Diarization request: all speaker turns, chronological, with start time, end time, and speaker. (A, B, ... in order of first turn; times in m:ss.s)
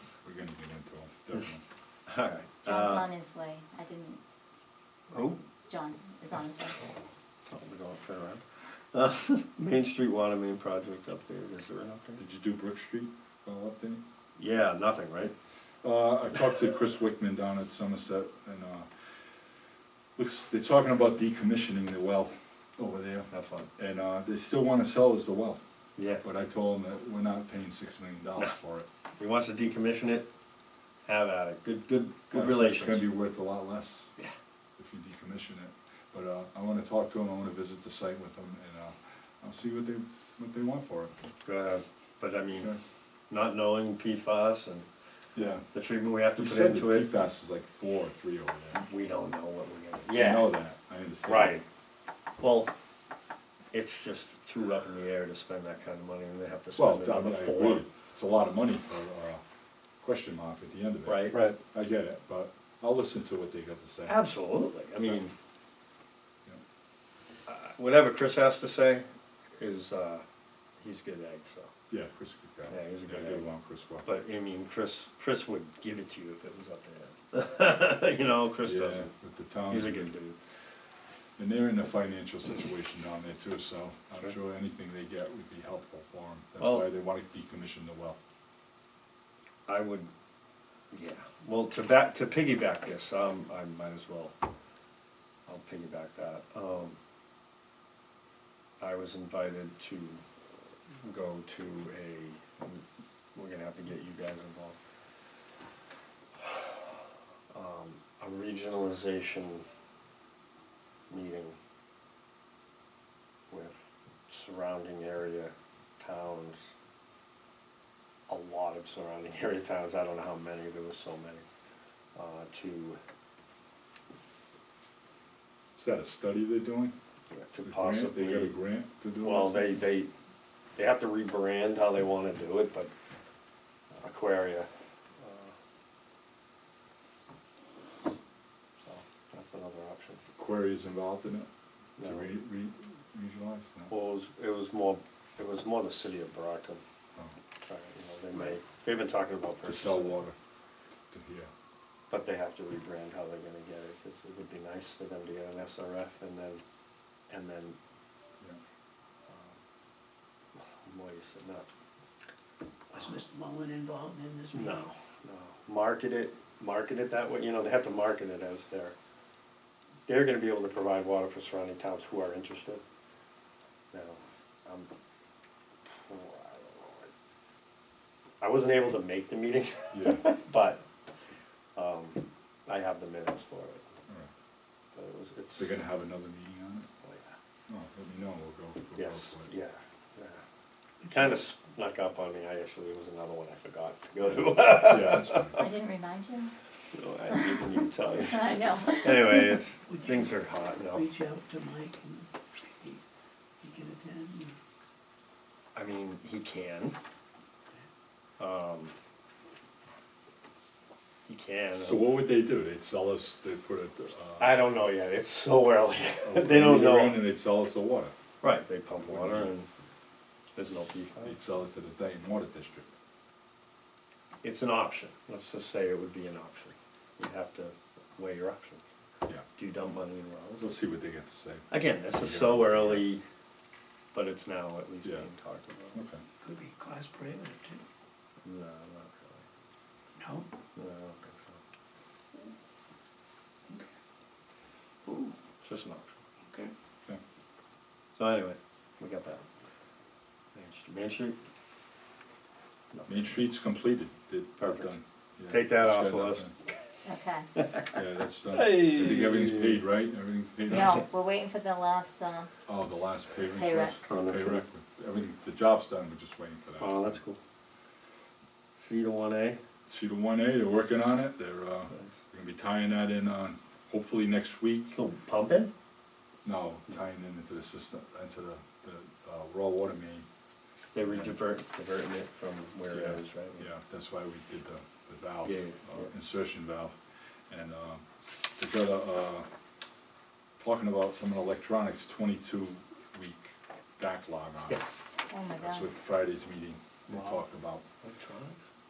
0:00.2-0:01.6 A
0:02.1-0:03.1 B
0:02.6-0:04.2 C
0:05.1-0:05.4 B
0:05.7-0:06.9 C
0:07.5-0:12.2 B
0:12.2-0:14.0 A
0:14.4-0:15.3 B
0:15.8-0:19.4 A
0:20.2-0:25.6 A
0:23.3-0:23.7 B
0:26.0-0:26.2 B
0:26.2-0:28.9 A
0:29.2-0:30.3 B
0:31.0-0:33.1 B
0:32.3-0:34.1 A
0:34.8-0:41.1 A
0:41.4-0:42.7 B
0:42.5-0:42.8 A
0:43.3-0:44.9 B
0:45.3-0:45.6 A
0:45.7-0:47.1 B
0:46.4-0:48.8 A
0:48.8-0:50.6 B
0:50.1-0:51.6 A
0:51.2-0:51.6 B
0:52.4-0:52.7 B
0:53.7-0:57.9 B
0:56.7-0:59.4 A
1:00.0-1:04.2 A
1:01.0-1:01.5 B
1:04.1-1:05.3 B
1:07.5-1:09.0 B
1:09.6-1:10.2 B
1:10.8-1:11.7 B
1:11.9-1:14.0 A
1:12.7-1:13.5 B
1:14.0-1:19.1 B
1:18.6-1:20.1 A
1:19.7-1:20.4 B
1:21.4-1:28.2 A
1:26.6-1:26.9 B
1:29.7-1:30.1 B
1:30.9-1:34.3 B
1:35.5-1:37.0 B
1:38.8-1:40.2 B
1:41.0-1:42.8 B
1:43.3-1:44.8 B
1:47.5-1:49.6 B
1:51.1-1:51.6 B
1:53.5-1:56.7 B
1:58.3-2:01.4 B
2:02.1-2:03.0 B
2:05.8-2:06.9 A
2:07.3-2:08.6 B
2:07.6-2:09.8 A
2:09.2-2:10.1 B
2:10.8-2:12.9 B
2:13.9-2:15.5 B
2:18.8-2:20.2 B
2:20.4-2:21.5 A
2:22.0-2:22.3 B
2:22.0-2:23.9 A
2:23.9-2:26.8 B
2:27.6-2:30.2 B
2:29.6-2:30.4 A
2:31.1-2:31.5 A
2:32.1-2:36.6 B
2:37.3-2:37.8 B
2:39.3-2:39.6 B
2:40.6-2:41.7 B
2:42.9-2:44.8 D
2:44.5-2:48.9 B
2:50.1-2:52.8 B
2:53.9-2:54.9 B
2:55.9-2:57.1 B
2:58.4-3:00.8 B
2:59.9-3:00.2 A
3:01.7-3:03.8 B
3:04.9-3:05.8 B
3:05.6-3:06.9 A
3:07.0-3:07.3 B
3:07.7-3:09.5 A
3:09.0-3:10.4 B
3:11.0-3:11.3 D
3:11.1-3:15.7 B
3:14.2-3:15.7 A
3:15.6-3:16.5 C
3:16.9-3:21.1 B
3:17.3-3:17.6 C
3:18.2-3:19.5 C
3:19.9-3:20.3 D
3:20.9-3:23.0 D
3:23.6-3:24.5 D
3:25.7-3:27.0 B
3:28.4-3:28.9 B
3:31.2-3:32.1 B
3:31.8-3:34.5 A
3:34.4-3:37.2 B
3:36.2-3:38.1 A
3:38.4-3:39.7 B
3:39.0-3:39.5 A
3:40.5-3:41.4 B
3:41.2-3:42.9 A
3:44.4-3:48.9 B
3:49.5-3:50.6 B
3:50.6-3:53.1 A
3:51.7-3:53.2 B
3:54.1-3:56.0 B
3:55.0-3:55.3 A
3:55.9-3:56.2 A
3:56.4-3:57.8 D
3:58.4-3:59.4 B
4:00.2-4:00.5 D
4:00.7-4:01.6 B
4:05.1-4:05.3 D
4:05.6-4:06.2 B
4:06.4-4:06.7 D
4:08.2-4:09.4 B
4:10.5-4:11.4 B
4:13.0-4:16.5 A
4:14.6-4:15.0 B
4:15.5-4:16.5 B
4:17.0-4:17.5 C
4:17.6-4:18.0 B
4:17.9-4:21.0 A
4:18.5-4:19.8 B
4:20.7-4:22.5 C
4:22.7-4:27.2 A
4:23.5-4:24.0 C
4:24.0-4:24.6 B
4:26.8-4:27.4 B
4:28.8-4:29.6 B
4:29.9-4:35.0 A
4:34.9-4:35.7 B
4:36.4-4:40.2 A
4:40.9-4:43.7 B
4:41.0-4:41.4 A
4:42.9-4:47.0 A
4:45.4-4:46.1 B
4:47.5-4:49.5 A
4:50.6-4:54.8 A
4:55.3-4:55.9 C
4:55.6-4:57.8 A
4:57.1-4:57.4 B
4:58.0-4:58.7 B